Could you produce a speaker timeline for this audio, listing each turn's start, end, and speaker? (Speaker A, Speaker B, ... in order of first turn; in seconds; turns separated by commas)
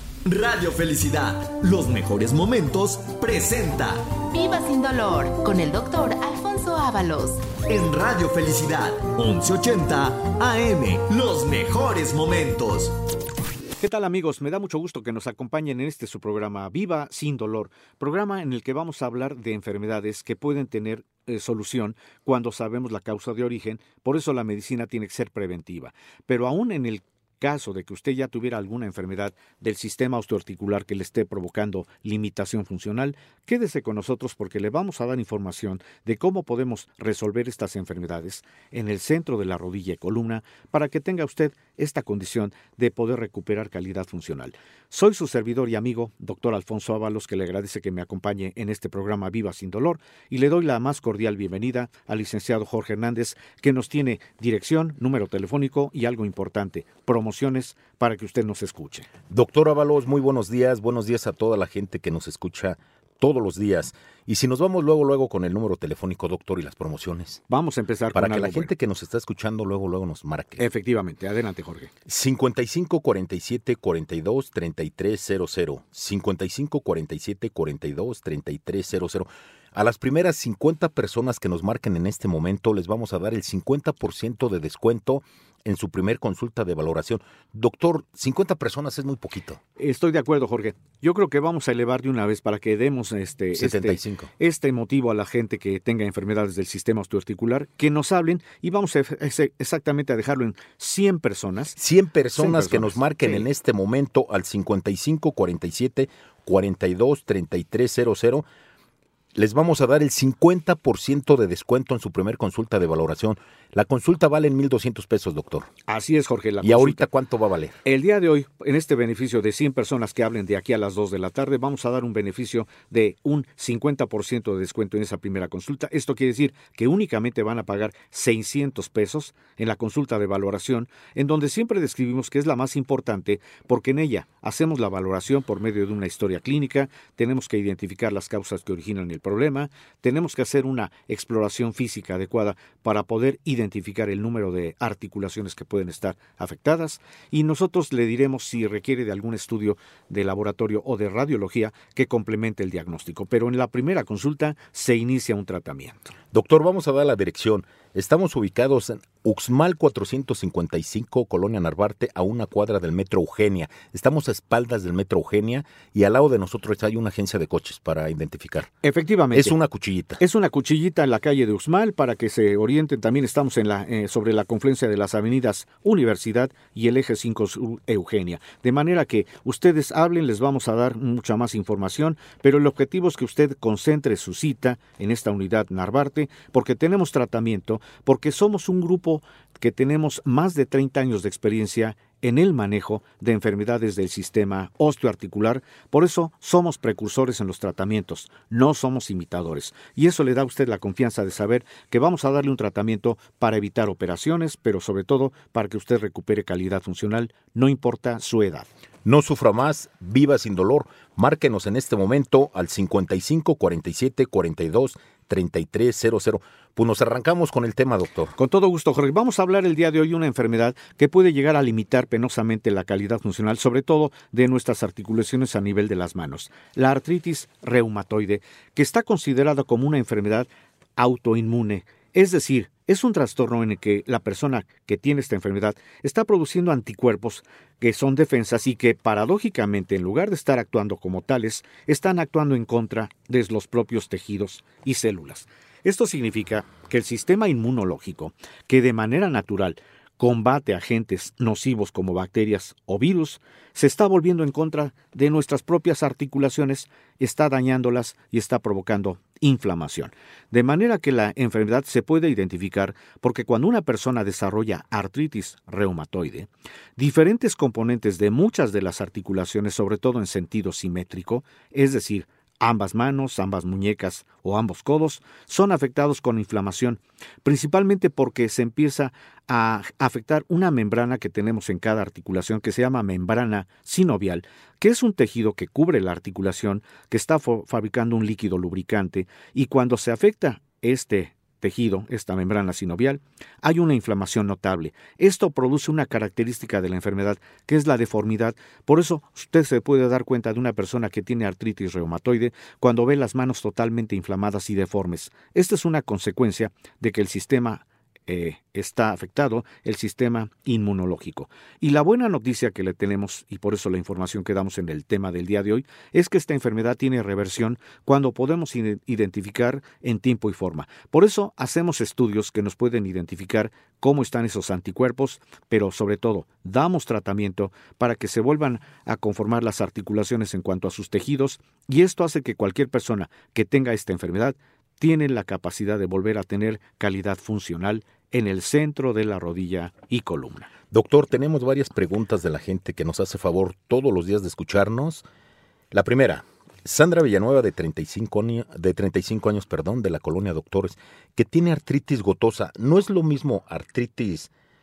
Speaker A: 0.2-4.1, Speaker B: 4.3-7.5, Speaker A: 7.7-12.9, Speaker C: 13.8-59.1, Speaker D: 59.3-67.4, Speaker C: 67.5-68.7, Speaker D: 68.1-70.6, Speaker C: 70.6-71.9, Speaker D: 72.1-89.6, Speaker C: 89.8-101.8, Speaker D: 93.5-94.3, Speaker D: 101.8-108.5, Speaker C: 102.3-103.5, Speaker D: 109.3-115.7, Speaker C: 115.9-117.0, Speaker D: 116.6-117.8, Speaker C: 117.8-156.1, Speaker D: 156.3-168.8, Speaker C: 168.8-169.5, Speaker D: 169.3-170.2, Speaker C: 170.2-208.7, Speaker D: 209.0-218.3, Speaker C: 218.3-340.7, Speaker D: 340.9-345.2, Speaker D: 345.9-354.5